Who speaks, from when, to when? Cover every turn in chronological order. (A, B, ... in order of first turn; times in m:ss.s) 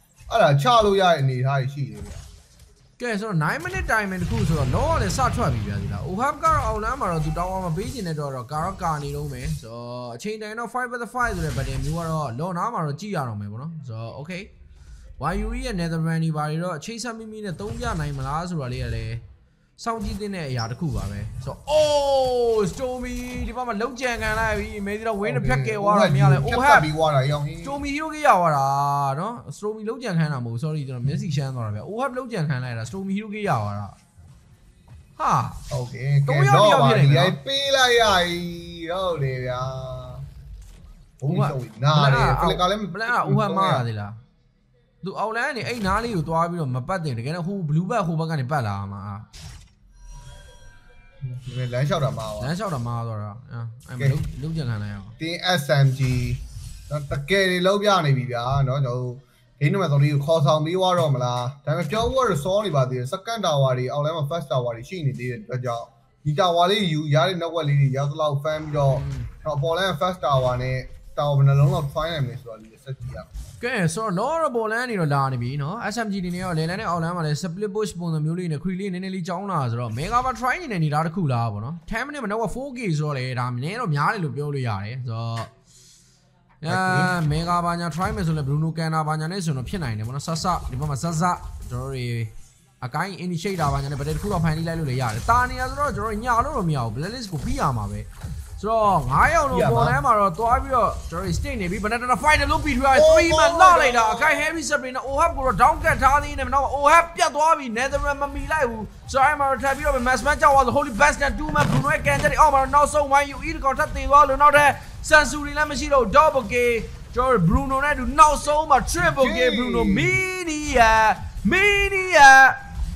0:00.3-0:02.2 A
0:03.0-0:14.5 B
0:15.2-0:19.2 B
0:19.8-0:26.9 B
0:25.2-0:27.8 A
0:27.6-0:34.0 B
0:35.2-0:35.6 B
0:35.7-0:40.2 A
0:36.2-0:37.4 B
0:41.2-0:43.8 A
0:41.3-0:44.2 B
0:45.0-0:49.3 B
0:51.2-0:52.5 A
0:52.4-0:55.1 B
0:55.2-1:13.3 A
1:08.9-1:09.3 B
1:13.6-1:25.5 B
1:26.6-1:38.1 B
1:26.7-1:27.2 A
1:38.6-2:02.6 B
1:39.5-1:40.0 A
1:42.9-1:44.5 A
1:59.0-2:00.2 A